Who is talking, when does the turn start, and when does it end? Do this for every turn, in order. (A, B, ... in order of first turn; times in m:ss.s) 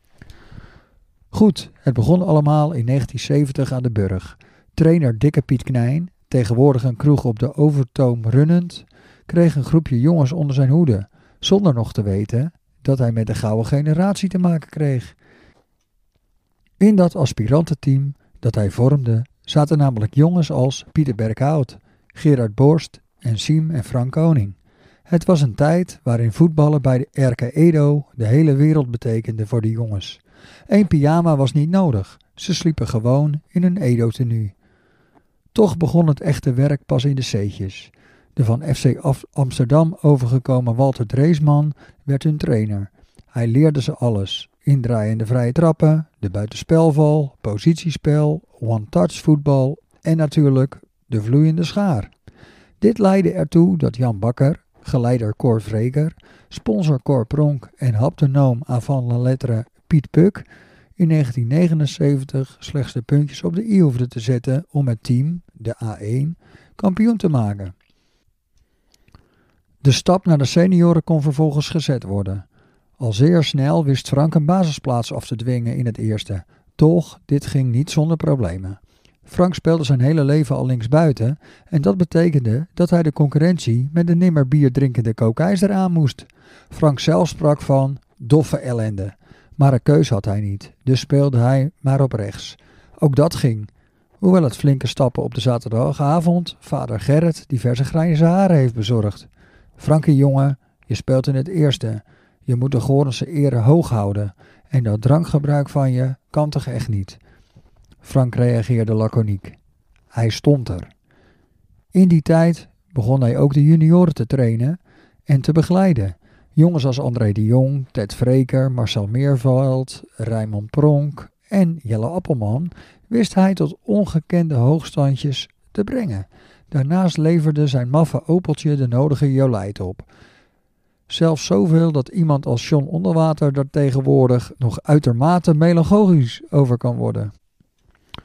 0:01.3-0:15.1 A
0:16.8-0:24.6 A
0:25.1-0:34.5 A
0:35.5-0:52.1 A
0:52.8-1:00.5 A
1:01.0-1:07.7 A
1:09.8-1:12.5 A
1:13.0-1:47.2 A
1:48.0-1:49.6 A
1:50.1-1:50.9 A
1:51.9-2:10.1 A
2:11.1-2:17.3 A